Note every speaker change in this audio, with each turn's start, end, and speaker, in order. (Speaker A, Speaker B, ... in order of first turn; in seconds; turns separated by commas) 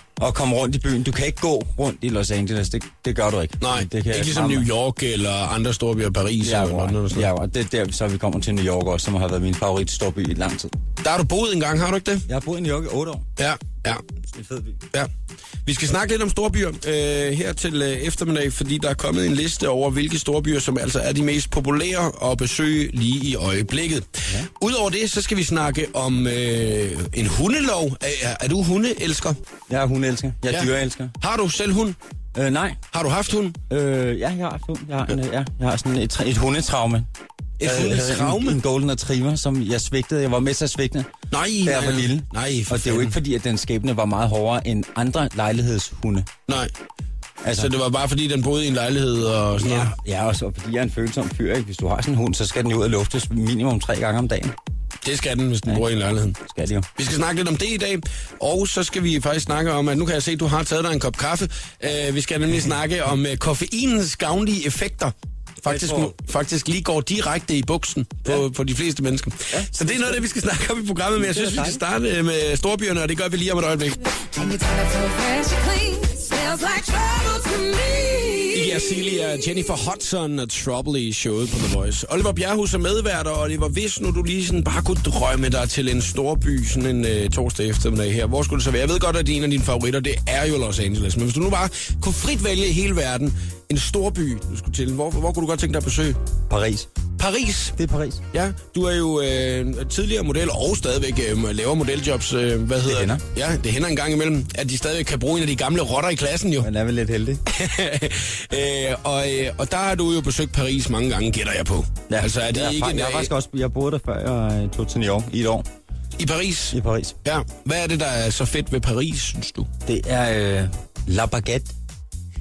Speaker A: 0.2-4.7, Speaker B: 3.6-7.3, Speaker A: 6.4-10.8, Speaker B: 11.0-12.2, Speaker A: 12.3-13.2, Speaker B: 13.4-14.0, Speaker A: 14.3-14.8, Speaker B: 15.7-29.4, Speaker A: 29.7-31.1, Speaker B: 30.5-32.0, Speaker A: 32.4-32.8, Speaker B: 32.9-33.6, Speaker A: 33.7-37.1, Speaker B: 37.6-38.6, Speaker A: 37.6-41.1, Speaker B: 41.3-43.2, Speaker A: 41.6-46.3, Speaker A: 47.4-47.7, Speaker B: 47.6-49.9, Speaker A: 49.6-54.6, Speaker B: 55.0-56.4, Speaker A: 56.4-56.9, Speaker B: 57.0-74.1, Speaker A: 65.7-66.1, Speaker A: 69.5-70.3, Speaker A: 71.2-71.8, Speaker C: 74.3-79.2, Speaker B: 78.5-96.2, Speaker A: 96.5-96.9, Speaker B: 97.2-97.8, Speaker A: 97.8-98.2, Speaker B: 98.3-106.7, Speaker A: 102.8-103.2, Speaker A: 106.6-107.4, Speaker B: 107.5-113.3, Speaker A: 112.1-115.7, Speaker B: 116.2-119.7, Speaker A: 116.7-117.2, Speaker A: 119.8-121.7